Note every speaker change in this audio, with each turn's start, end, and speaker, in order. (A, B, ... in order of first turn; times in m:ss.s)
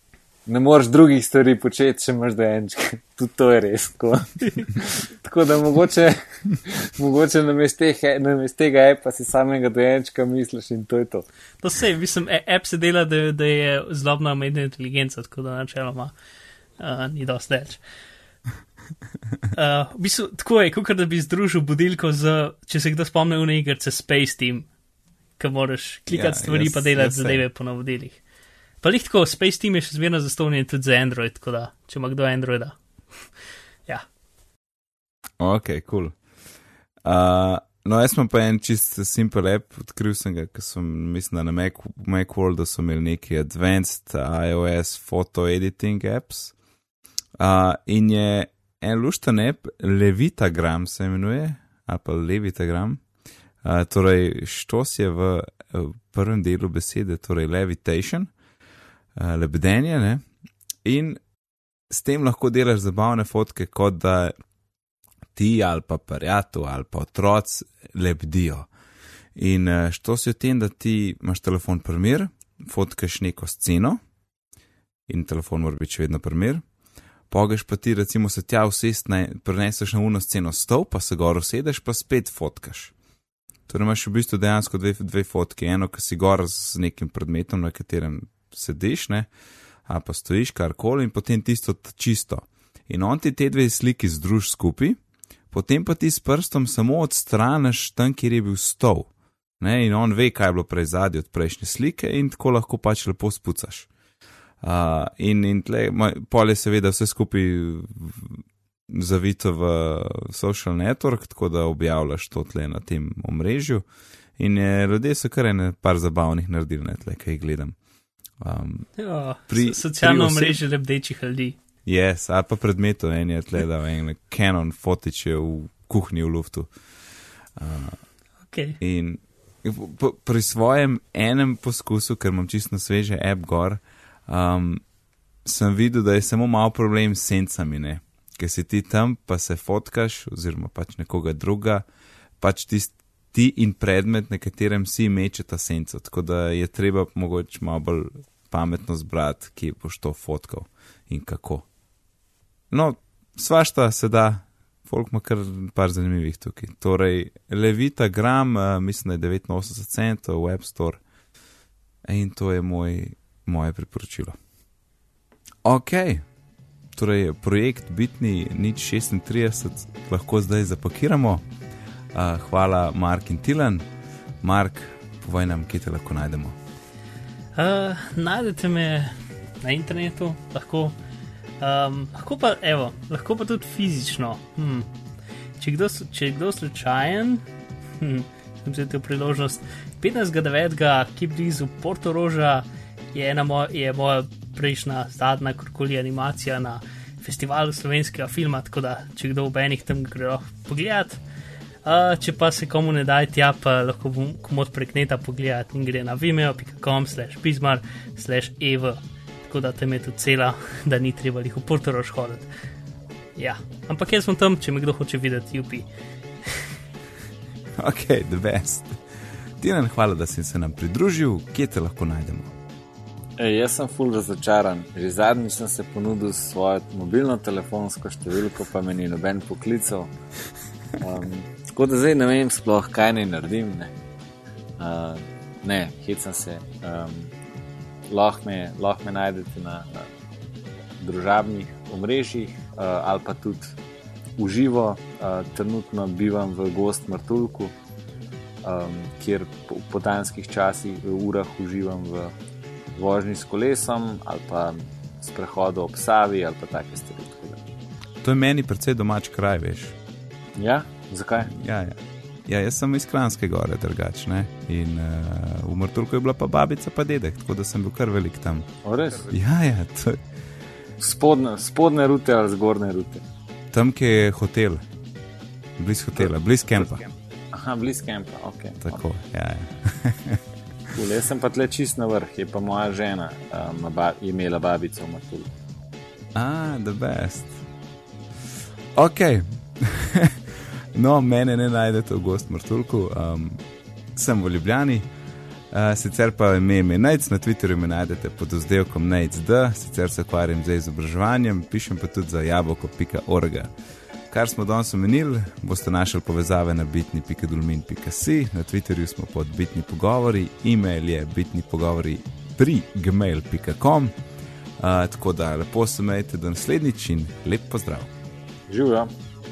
0:00.5-0:11.2 A
0:11.6-0:16.1 B
0:16.8-0:17.8 B
0:19.5-0:24.7 B
0:25.4-0:28.2 B
0:26.1-0:27.4 C
0:28.8-0:33.2 B
0:35.4-0:36.2 C
0:37.0-0:46.5 C
0:47.4-0:53.0 C
0:53.6-0:58.3 C
0:59.1-1:00.2 C
1:00.8-1:01.2 C
1:01.9-1:04.3 C
1:05.3-1:08.7 C
1:09.3-1:14.0 C
1:15.1-1:16.6 C
1:17.3-1:22.9 C
1:23.7-1:29.3 C
1:29.9-1:35.0 C
1:35.5-1:39.1 C
1:39.6-1:43.9 C
1:44.6-1:53.8 C
1:54.4-1:57.8 C
1:58.4-1:58.9 C
1:59.0-2:01.6 B
1:59.5-2:00.6 C
2:01.8-2:06.7 C
2:07.6-2:08.0 C
2:08.5-2:08.8 B
2:08.8-2:14.8 C
2:15.4-2:21.8 C
2:22.4-2:31.6 C
2:32.7-2:41.0 C
2:42.0-2:44.4 C
2:45.6-2:46.2 C
2:46.9-2:51.4 C
2:52.1-2:53.8 C
2:54.4-2:56.6 C
2:57.5-3:00.9 B
3:01.6-3:04.9 B
3:05.6-3:07.4 B
3:08.0-3:21.2 B
3:21.8-3:32.5 B
3:33.4-3:35.9 B
3:36.4-3:36.7 B
3:37.8-3:39.0 C
3:39.6-3:42.5 C
3:43.4-3:50.1 A
3:51.0-3:53.9 A
3:54.8-3:57.3 A
3:58.1-4:00.1 A
4:01.0-4:03.8 A
4:04.4-4:07.7 A
4:08.6-4:12.3 A
4:12.9-4:17.6 A
4:18.2-4:19.9 C
4:20.6-4:21.5 A
4:21.4-4:28.7 C
4:28.8-4:29.3 A
4:29.3-4:30.2 C
4:31.0-4:33.2 A
4:33.7-4:34.8 C
4:35.8-4:37.0 C
4:36.2-4:39.0 A
4:38.8-4:40.4 C
4:40.9-4:45.5 A
4:46.3-4:47.6 C
4:48.9-4:53.6 C
4:54.1-4:55.1 C
4:55.7-5:03.7 C
5:04.3-5:14.1 C
5:14.8-5:18.1 C
5:18.7-5:19.1 A